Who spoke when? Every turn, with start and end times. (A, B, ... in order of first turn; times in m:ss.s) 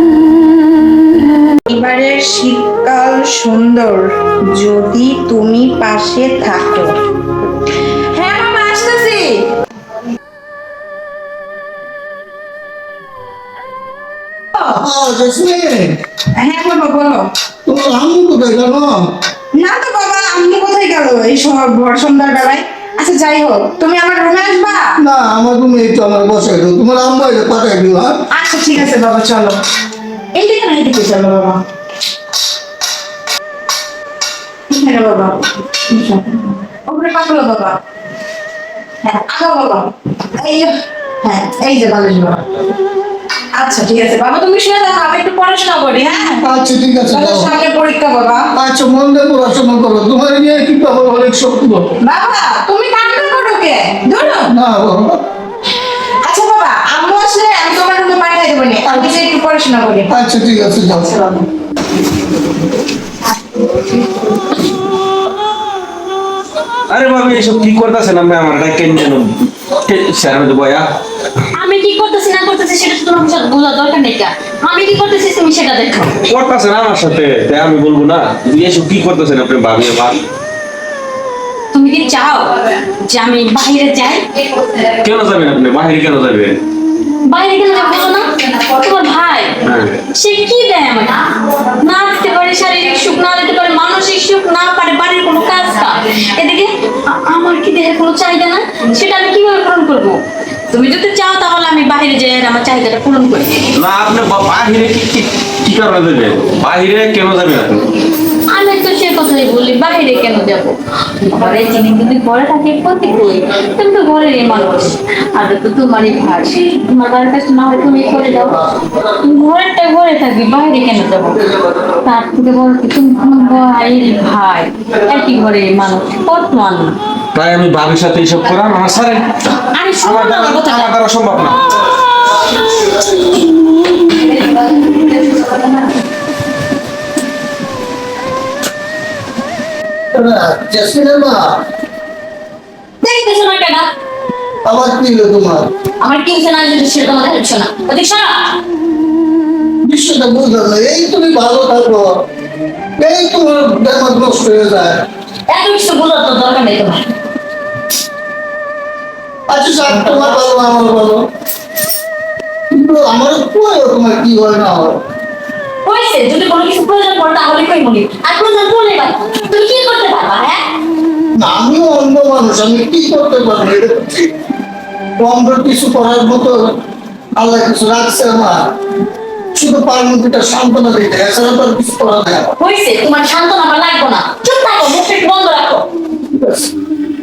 0:01.7-0:06.9 A
0:08.1-0:09.5 A
0:14.6-0:16.0 B
0:16.4-0:17.3 A
0:17.7-0:19.0 B
0:19.5-0:25.0 A
0:25.0-0:28.2 B
0:28.3-0:29.6 A
0:30.3-0:31.6 A
0:34.7-0:35.4 A
0:35.9-0:37.8 A
0:39.0-0:42.4 A
0:43.5-0:46.4 A
0:46.4-0:47.5 B
0:47.1-0:48.5 A
0:48.6-0:51.8 B
0:52.0-0:54.5 A
0:54.3-0:55.2 B
0:56.2-1:00.1 A
0:58.8-0:59.3 B
1:00.1-1:01.5 B
1:06.9-1:10.9 C
1:11.5-1:16.2 D
1:16.2-1:20.2 C
1:21.7-1:24.7 D
1:25.0-1:26.6 C
1:27.3-1:29.6 D
1:29.6-1:30.0 C
1:30.1-1:43.7 D
1:43.8-1:47.9 C
1:48.5-1:58.6 D
1:58.7-1:59.0 B
1:59.2-2:01.4 D
2:02.0-2:07.0 D
2:07.4-2:09.4 C
2:09.5-2:10.9 D
2:10.0-2:11.6 C
2:14.2-2:15.9 D
2:20.1-2:21.5 B
2:23.0-2:23.9 D
2:24.6-2:25.7 B
2:26.0-2:28.5 D
2:29.8-2:32.1 B
2:33.0-2:35.0 B
2:35.5-2:37.1 D
2:39.5-2:41.2 B
2:42.7-2:45.0 B
2:45.8-2:50.6 D
2:51.4-2:54.3 B
2:55.2-2:56.8 B
2:57.4-2:58.6 B
2:59.6-3:02.5 B
3:02.6-3:05.9 D
3:06.4-3:06.7 B